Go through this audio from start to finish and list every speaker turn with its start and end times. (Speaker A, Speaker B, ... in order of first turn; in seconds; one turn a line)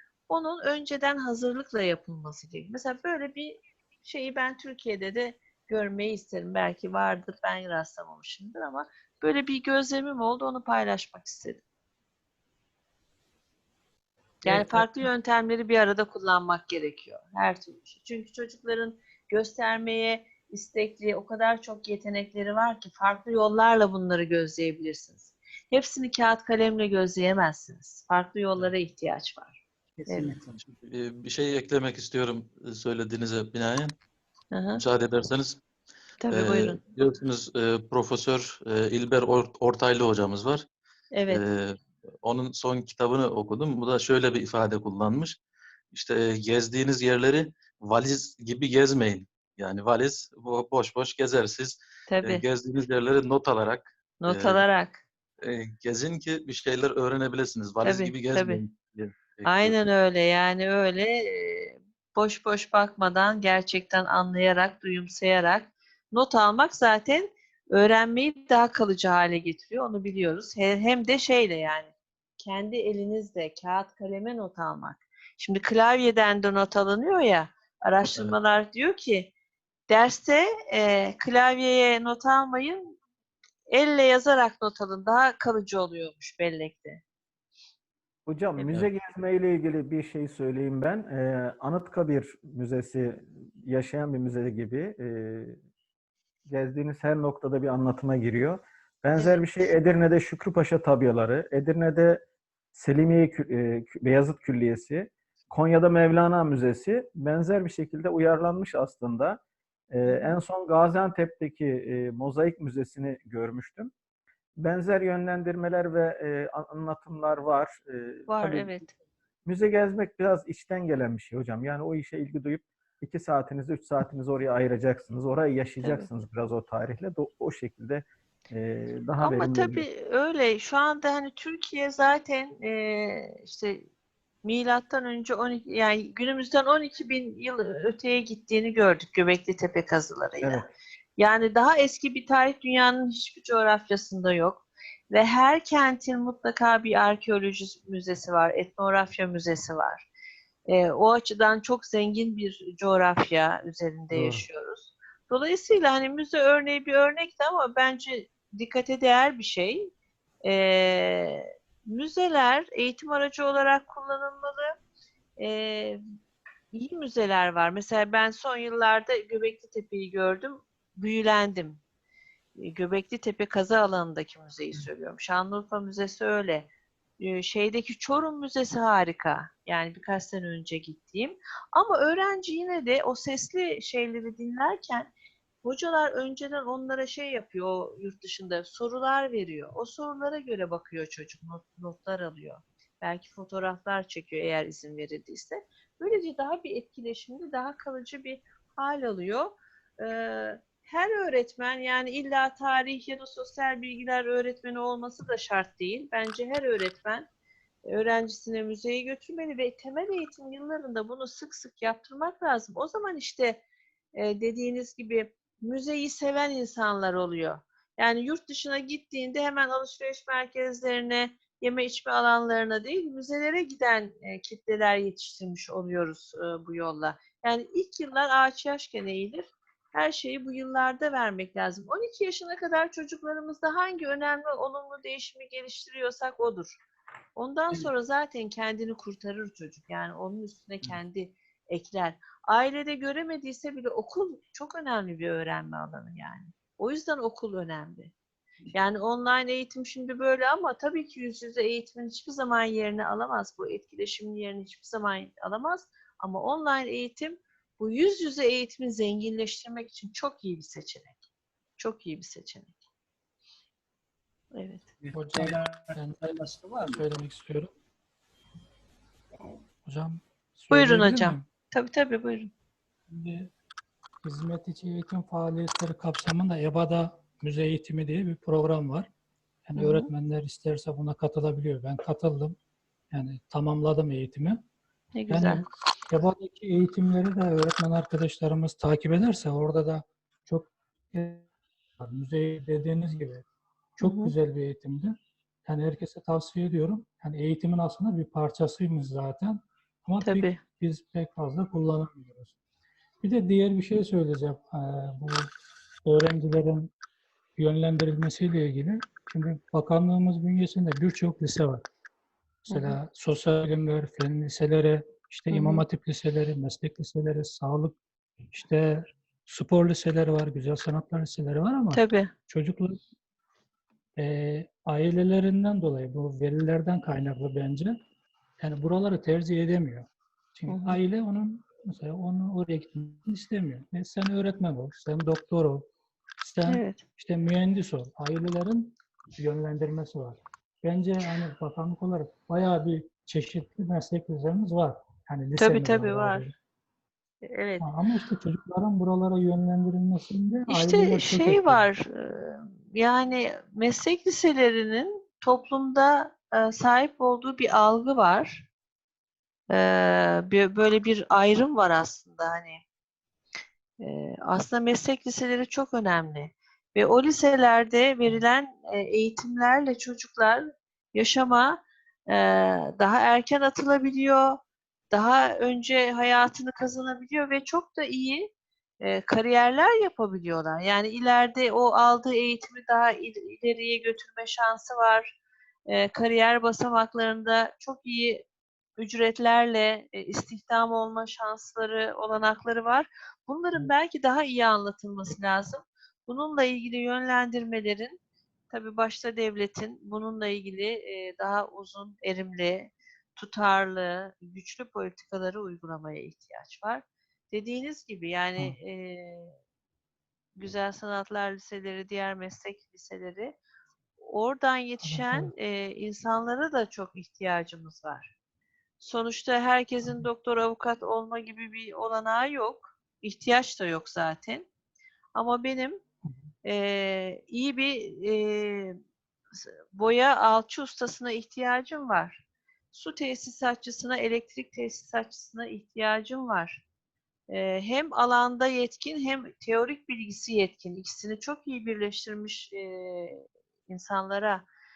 Speaker A: 0.3-11.6
Speaker B: 14.4-15.1
Speaker A: 14.4-30.3
Speaker B: 30.0-30.7
Speaker C: 30.8-34.0
Speaker A: 34.5-34.8
Speaker C: 34.8-35.6
Speaker A: 36.2-36.8
Speaker C: 36.3-40.7
Speaker A: 41.1-41.4
Speaker C: 41.3-45.4
Speaker C: 45.9-54.6
Speaker A: 52.1-52.4
Speaker A: 54.2-55.0
Speaker C: 55.4-59.8
Speaker A: 57.8-58.6
Speaker A: 59.5-79.3
Speaker A: 79.9-83.0
Speaker A: 83.7-87.0
Speaker D: 88.2-95.6
Speaker D: 96.5-113.9
Speaker A: 99.1-99.4
Speaker A: 110.0-110.3
Speaker D: 114.6-118.7
Speaker A: 118.3-118.9
Speaker D: 119.4-129.8
Speaker A: 125.8-126.1
Speaker A: 129.2-133.8
Speaker A: 134.4-140.7
Speaker D: 140.4-140.7
Speaker A: 141.2-150.1
Speaker A: 150.7-159.9
Speaker D: 154.1-154.4
Speaker A: 160.4-164.8
Speaker A: 165.4-166.0
Speaker A: 166.7-171.8
Speaker A: 172.6-176.7
Speaker A: 177.2-185.1
Speaker A: 185.6-207.3
Speaker A: 207.9-213.6
Speaker A: 214.2-236.8
Speaker A: 237.3-248.1
Speaker A: 248.7-261.2
Speaker A: 261.8-262.7
Speaker A: 264.5-264.8
Speaker B: 265.0-267.0
Speaker E: 265.1-266.2
Speaker E: 266.9-267.7
Speaker E: 269.8-271.4
Speaker A: 270.7-272.5
Speaker E: 273.1-273.5
Speaker E: 274.2-279.1
Speaker E: 279.6-282.6
Speaker A: 279.8-280.1
Speaker E: 283.1-284.6
Speaker A: 285.1-285.6
Speaker E: 285.3-293.4
Speaker E: 294.0-302.5
Speaker A: 294.0-294.3
Speaker A: 300.2-300.6
Speaker E: 303.2-305.5
Speaker E: 306.0-306.9
Speaker E: 307.6-311.8
Speaker A: 312.7-313.0
Speaker E: 312.7-318.0
Speaker A: 315.5-315.8
Speaker E: 318.5-323.0
Speaker A: 321.9-322.3
Speaker E: 324.1-328.0
Speaker E: 328.6-346.5
Speaker A: 330.7-331.0
Speaker A: 336.7-337.0
Speaker A: 345.6-346.5
Speaker A: 347.4-347.9
Speaker E: 347.8-351.9
Speaker A: 350.7-358.7
Speaker A: 359.7-362.8
Speaker A: 364.0-374.6
Speaker A: 375.1-378.5
Speaker A: 379.0-385.3
Speaker A: 385.9-388.4
Speaker A: 389.0-398.2
Speaker A: 398.7-409.6
Speaker A: 410.6-413.6
Speaker A: 414.2-418.3
Speaker E: 415.0-415.5
Speaker A: 419.0-424.7
Speaker A: 425.3-426.0
Speaker A: 426.6-429.0
Speaker A: 429.5-436.8
Speaker A: 437.5-444.6